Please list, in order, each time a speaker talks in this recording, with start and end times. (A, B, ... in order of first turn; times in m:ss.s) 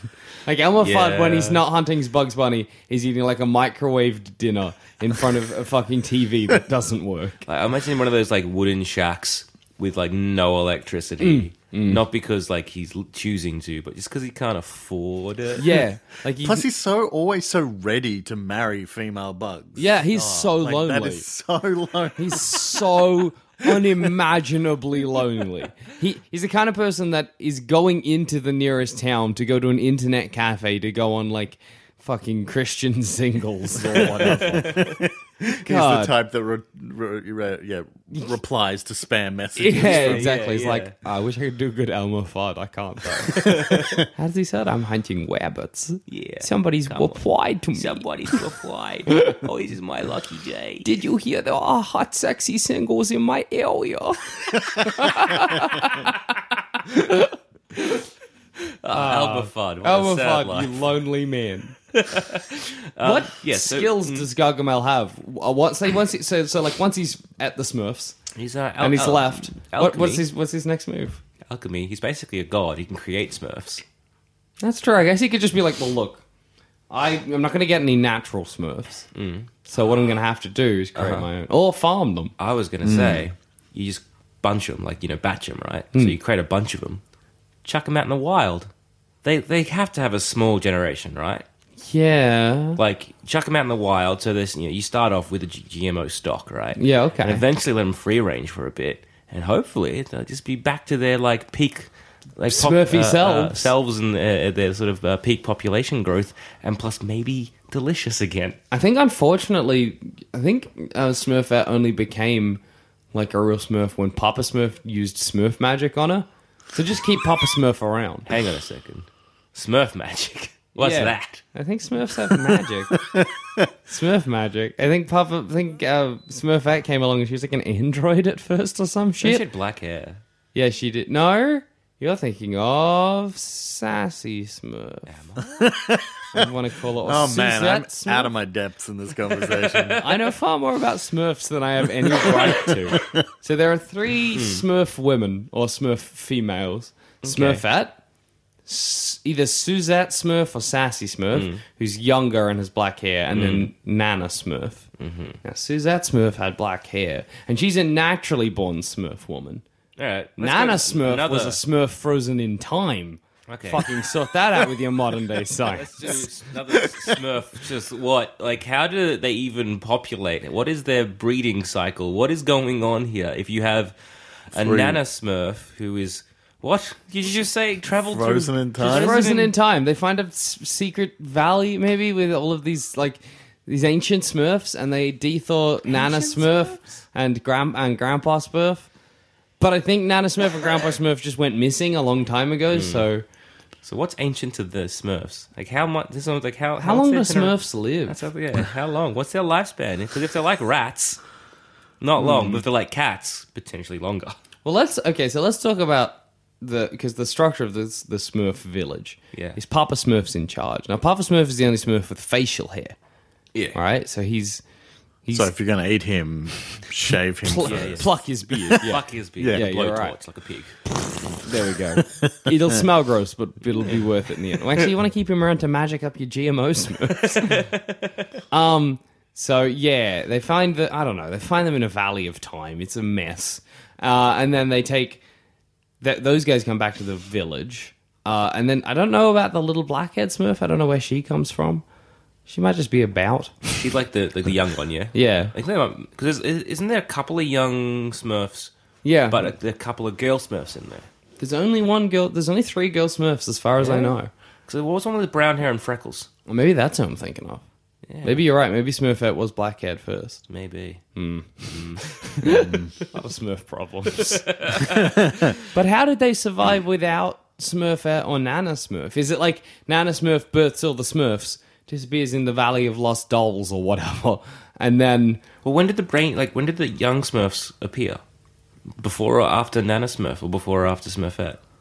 0:00.4-0:07.4 A
0:00.8-0:01.6 B
0:07.4-0:15.8 B
0:11.2-0:12.0 A
0:15.6-0:16.6 A
0:16.4-0:22.8 C
0:19.8-0:21.2 A
0:22.2-0:34.8 A
0:33.9-0:40.3 C
0:34.2-0:35.0 B
0:35.6-0:36.1 A
0:39.6-0:48.0 A
0:39.7-0:40.9 B
0:43.3-0:44.0 B
0:46.1-0:50.8 B
0:50.8-0:56.2 A
0:56.8-0:58.0 A
0:58.8-1:00.8 B
0:58.9-1:01.8 A
1:01.9-1:04.3 B
1:03.0-1:08.2 A
1:08.3-1:10.2 B
1:08.8-1:11.2 A
1:11.5-1:13.8 B
1:14.6-1:16.2 A
1:16.9-1:19.1 A
1:19.1-1:19.5 B
1:19.7-1:22.3 A
1:21.0-1:21.3 B
1:22.4-1:27.0 B
1:22.8-1:23.2 C
1:27.6-1:28.7 B
1:29.2-1:31.4 B
1:31.8-1:32.8 A
1:32.8-1:48.6 B
1:36.8-1:37.4 A
1:42.5-1:43.7 A
1:48.7-1:52.6 A
1:53.1-1:58.3 A
1:58.3-2:01.4 B
2:00.8-2:03.0 A
2:03.1-2:03.6 C
2:03.8-2:09.4 A
2:09.2-2:10.2 B
2:10.5-2:15.1 A
2:15.1-2:15.7 B
2:15.6-2:16.5 C
2:16.3-2:18.3 A
2:17.0-2:20.0 C
2:19.7-2:20.0 B
2:20.0-2:28.0 A
2:24.3-2:24.6 B
2:27.2-2:27.6 B
2:28.6-2:34.8 A
2:31.3-2:31.6 B
2:33.3-2:33.7 B
2:35.0-2:35.4 B
2:35.4-2:39.6 A
2:40.0-2:41.6 B
2:40.4-2:47.1 A
2:43.5-2:43.9 B
2:45.6-2:54.0 B
2:54.5-2:59.5 B
2:54.5-2:55.0 C
2:58.0-2:59.2 C
2:58.8-3:08.9 A
3:05.9-3:06.8 B
3:09.6-3:13.2 A
3:12.7-3:13.1 B
3:13.8-3:21.2 B
3:16.8-3:18.2 A
3:22.0-3:24.4 B
3:22.2-3:22.6 A
3:24.6-3:33.0 A
3:29.3-3:29.6 B
3:33.7-3:34.6 A
3:35.2-3:35.5 A
3:35.3-3:38.1 C
3:37.4-3:40.1 A
3:37.6-3:38.1 B
3:38.8-3:40.8 B
3:39.4-3:39.7 C
3:41.3-3:47.7 A
3:42.0-3:42.5 C
3:47.2-3:48.1 B
3:48.5-3:55.2 A
3:56.0-4:01.8 A
4:02.5-4:03.9 A
4:03.8-4:08.7 B
4:05.1-4:05.5 A
4:09.0-4:09.5 A
4:09.3-4:11.1 B
4:11.4-4:14.3 A
4:13.8-4:14.2 B
4:14.7-4:16.3 B
4:16.5-4:17.6 A
4:18.1-4:18.4 B
4:18.2-4:20.4 A
4:20.5-4:21.0 B
4:21.1-4:25.0 A
4:21.7-4:22.0 B
4:22.4-4:22.9 C
4:24.4-4:25.1 B
4:25.5-4:35.4 A
4:35.6-4:38.2 B
4:39.0-4:41.6 B